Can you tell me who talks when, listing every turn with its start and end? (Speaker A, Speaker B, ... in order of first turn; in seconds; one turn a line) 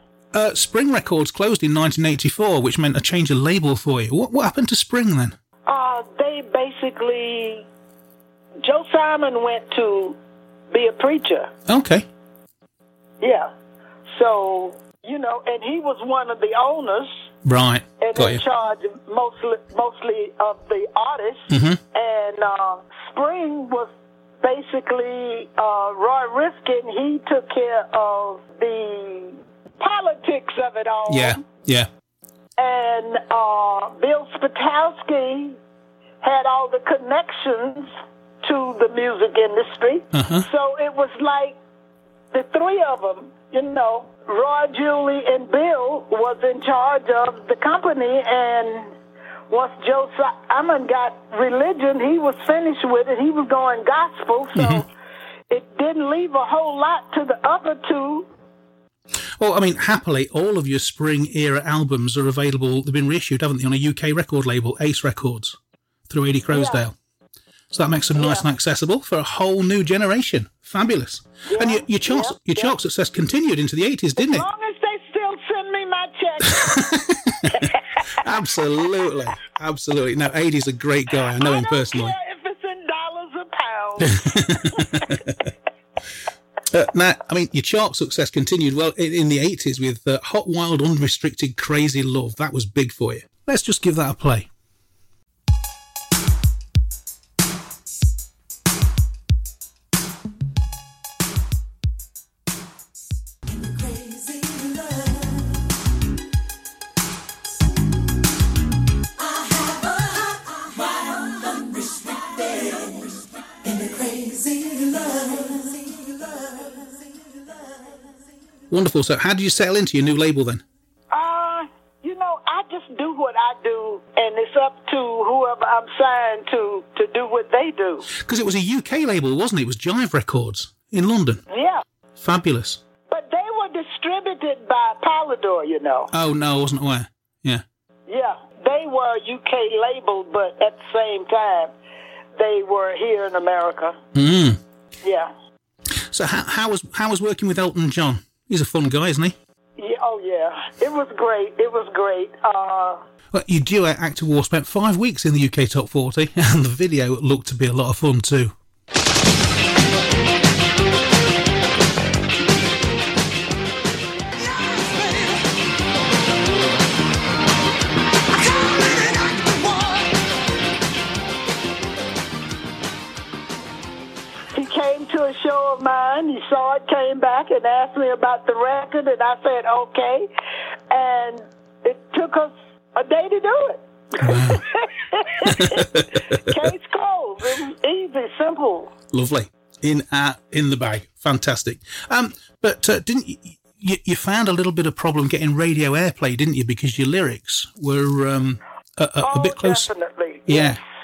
Speaker A: 0.3-5.3
Speaker B: 5.7-7.7
Speaker B: 8.6-10.2
Speaker B: 10.7-11.5
Speaker A: 11.7-12.1
Speaker B: 13.2-13.5
Speaker B: 14.1-17.1
Speaker A: 17.4-18.4
Speaker B: 18.0-23.9
Speaker A: 21.5-21.8
Speaker B: 24.4-31.4
Speaker A: 31.1-31.9
Speaker B: 32.6-35.6
Speaker B: 36.2-37.9
Speaker B: 38.4-41.6
Speaker A: 40.1-40.5
Speaker B: 42.3-48.9
Speaker B: 49.5-54.9
Speaker A: 54.5-54.8
Speaker B: 55.5-58.3
Speaker A: 59.4-65.6
Speaker A: 66.1-67.0
Speaker B: 66.5-66.8
Speaker A: 67.7-74.4
Speaker B: 68.2-68.5
Speaker B: 71.5-72.7
Speaker B: 74.2-78.3
Speaker A: 76.5-82.1
Speaker B: 78.8-79.1
Speaker B: 81.4-85.2
Speaker A: 84.0-85.5
Speaker A: 86.7-94.5
Speaker C: 103.8-104.8
Speaker C: 110.6-113.1
Speaker C: 113.7-115.9
Speaker A: 118.7-120.6
Speaker B: 121.1-128.1
Speaker A: 128.2-131.4
Speaker B: 131.5-131.8
Speaker A: 132.2-132.8
Speaker B: 133.1-136.1
Speaker A: 136.1-137.6
Speaker B: 138.1-141.7
Speaker B: 142.4-144.0
Speaker A: 144.1-144.6
Speaker B: 145.0-145.3
Speaker A: 145.9-149.3
Speaker B: 149.8-153.0
Speaker A: 153.3-158.5
Speaker C: 164.3-165.5
Speaker C: 168.3-170.2
Speaker B: 174.5-180.3
Speaker B: 180.9-188.9
Speaker A: 184.2-184.6
Speaker A: 185.4-186.6
Speaker A: 189.1-199.9
Speaker B: 199.2-200.8
Speaker A: 200.5-200.8